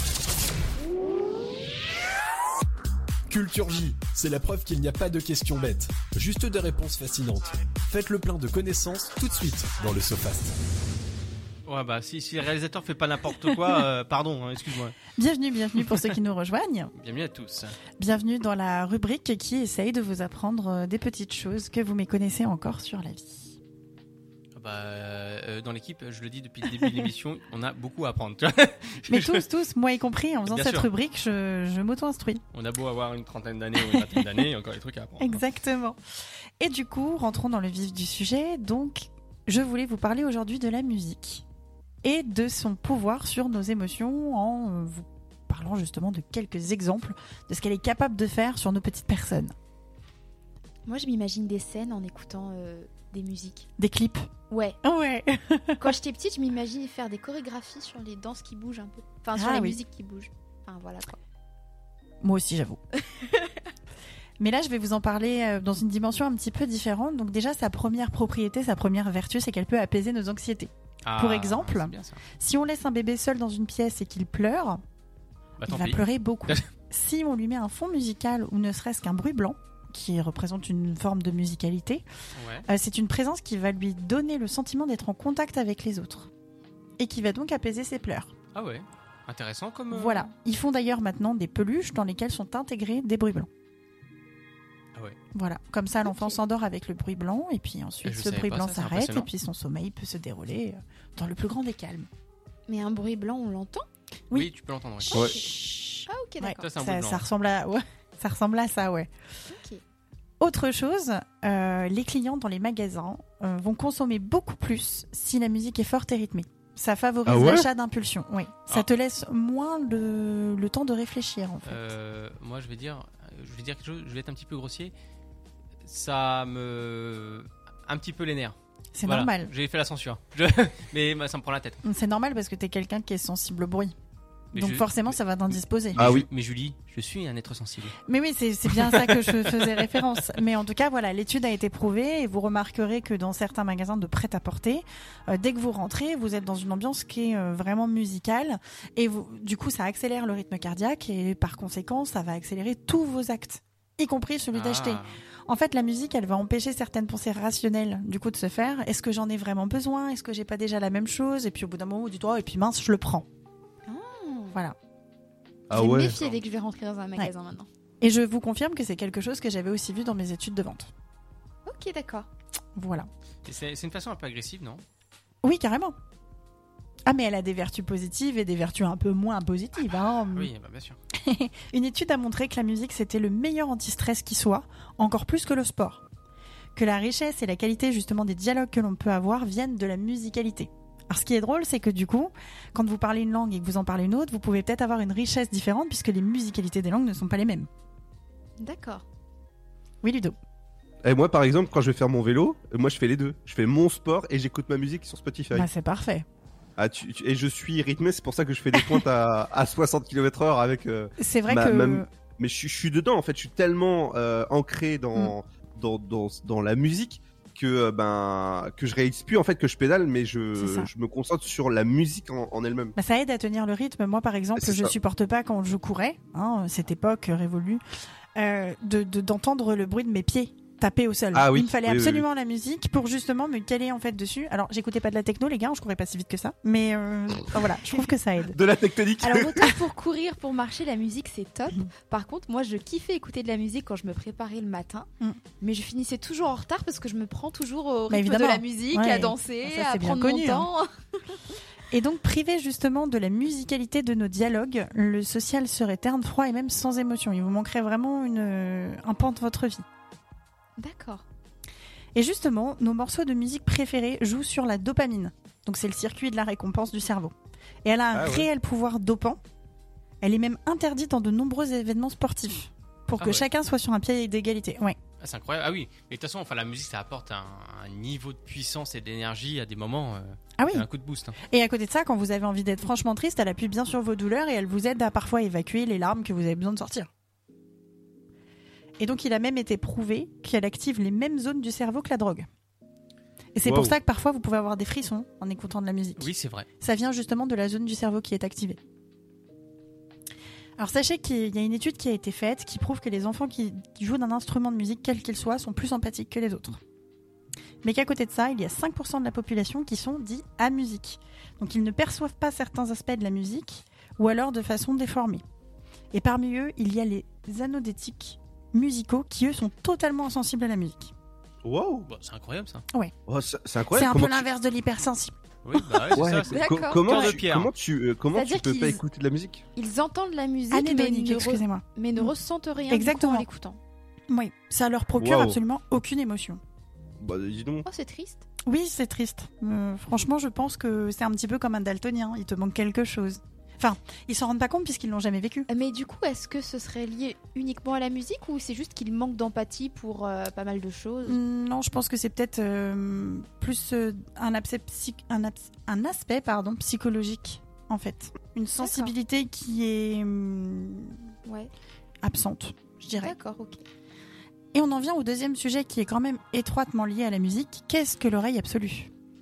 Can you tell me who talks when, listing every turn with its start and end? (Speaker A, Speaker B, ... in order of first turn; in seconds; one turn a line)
Speaker A: 3.3-10.6
Speaker B: 11.7-14.9
Speaker C: 15.2-16.9
Speaker B: 16.9-17.8
Speaker C: 18.0-23.6
Speaker B: 24.6-29.4
Speaker C: 29.1-32.4
Speaker B: 30.5-30.9
Speaker B: 32.5-35.4
Speaker C: 33.8-34.3
Speaker C: 35.2-36.0
Speaker C: 36.6-41.4
Speaker C: 42.0-49.5
Speaker D: 50.9-53.7
Speaker C: 53.8-54.3
Speaker D: 54.5-54.8
Speaker C: 54.8-55.9
Speaker D: 55.8-61.2
Speaker C: 59.4-59.8
Speaker C: 62.2-62.8
Speaker C: 64.4-74.8
Speaker B: 71.0-72.2
Speaker B: 75.6-76.6
Speaker C: 75.7-82.0
Speaker B: 82.4-82.7
Speaker C: 82.7-86.3
Speaker C: 87.0-88.3
Speaker B: 88.5-90.3
Speaker C: 89.9-93.5
Speaker C: 95.3-102.1
Speaker D: 96.0-96.4
Speaker B: 98.0-99.3
Speaker D: 102.7-103.9
Speaker B: 104.3-105.3
Speaker C: 105.1-109.1
Speaker D: 105.1-105.6
Speaker D: 106.1-106.6
Speaker B: 106.6-107.2
Speaker D: 109.5-109.8
Speaker C: 110.4-121.8
Speaker E: 117.3-117.7
Speaker B: 121.6-124.9
Speaker B: 125.9-131.8
Speaker C: 128.9-129.5
Speaker C: 131.8-133.9
Speaker B: 134.5-135.2
Speaker C: 134.5-136.0
Speaker B: 135.9-138.0
Speaker E: 135.9-136.3
Speaker C: 138.1-163.3
Speaker B: 138.7-140.2
Speaker B: 154.5-155.2
Speaker D: 163.9-164.6
Speaker E: 165.7-166.2
Speaker D: 165.7-167.7
Speaker B: 166.1-166.4
Speaker C: 168.0-170.9
Speaker D: 171.7-172.3
Speaker C: 172.8-173.1
Speaker B: 173.4-174.8
Speaker C: 175.4-175.9
Speaker C: 177.1-180.5
Speaker B: 180.3-181.0
Speaker C: 181.2-186.0
Speaker C: 186.8-197.7
Speaker D: 198.6-199.0
Speaker C: 200.0-200.4
Speaker E: 201.0-205.7
Speaker C: 205.5-206.2
Speaker E: 206.8-222.9
Speaker C: 211.2-212.1
Speaker C: 220.6-220.9
Speaker C: 222.9-227.8
Speaker E: 224.6-224.9
Speaker C: 228.4-238.6
Speaker E: 231.3-232.2
Speaker E: 238.5-239.7
Speaker D: 239.2-245.1
Speaker D: 245.6-250.9
Speaker C: 248.1-250.7
Speaker C: 251.9-259.8
Speaker D: 260.8-261.2
Speaker C: 262.1-267.3
Speaker C: 267.9-269.4
Speaker E: 268.1-268.5
Speaker C: 270.2-274.9
Speaker B: 273.2-273.5
Speaker B: 275.2-281.4
Speaker C: 280.6-280.9
Speaker C: 281.5-287.1
Speaker C: 289.0-292.5
Speaker C: 293.6-298.8
Speaker E: 293.6-293.9
Speaker B: 296.2-296.7
Speaker C: 300.8-306.8
Speaker C: 307.8-315.4
Speaker C: 316.1-321.1
Speaker E: 321.6-322.1
Speaker B: 322.1-322.9
Speaker E: 323.3-324.4
Speaker C: 323.9-325.3
Speaker B: 325.6-327.7
Speaker D: 326.1-327.4
Speaker E: 326.1-329.6
Speaker D: 328.4-329.0
Speaker D: 329.8-333.8
Speaker C: 330.7-332.3
Speaker C: 332.9-333.5
Speaker C: 334.3-336.6
Speaker E: 335.2-335.6
Speaker E: 337.2-337.9
Speaker D: 337.9-338.4
Speaker C: 338.7-345.7
Speaker D: 345.7-351.4
Speaker C: 351.2-361.2
Speaker D: 358.8-359.1
Speaker D: 361.4-361.7
Speaker C: 362.2-363.4
Speaker D: 363.2-363.8
Speaker C: 364.7-369.1